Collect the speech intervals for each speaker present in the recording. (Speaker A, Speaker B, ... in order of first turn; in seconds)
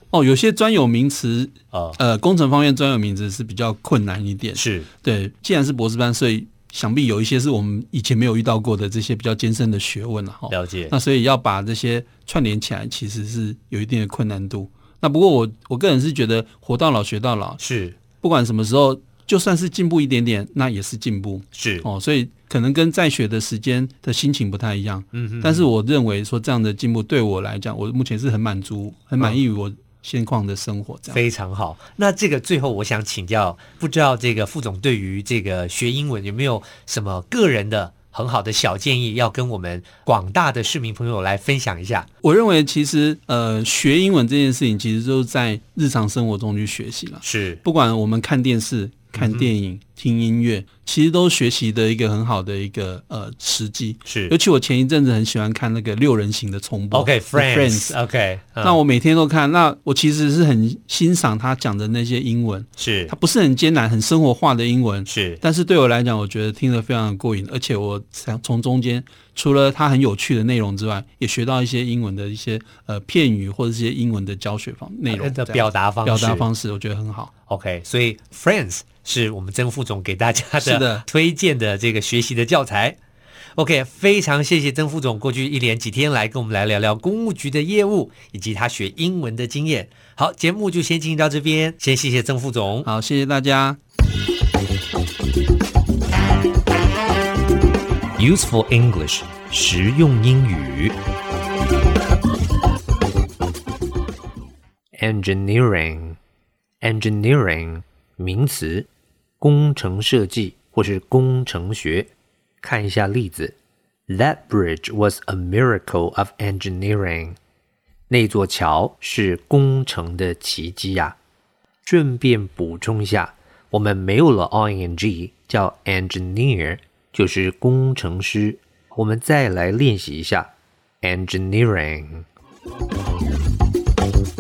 Speaker A: 0.1-17.6, 18.2-31.2, 42.2-58.0, 58.6-77.3, 80.6-81.0, 92.8-93.8
Speaker B: 1.7-2.0, 4.5-4.9, 10.5-10.9, 17.6-18.0, 21.5-21.9, 25.1-25.7, 31.1-42.1, 47.2-47.6, 49.1-49.5, 54.1-54.4, 56.9-58.8, 62.8-63.1, 65.1-65.4, 75.1-76.5, 77.5-83.0, 83.6-92.9, 98.2-101.0, 105.0-106.2, 106.8-108.9, 109.4-112.1, 112.6-113.5, 114.1-117.4, 118.1-121.2, 121.8-132.3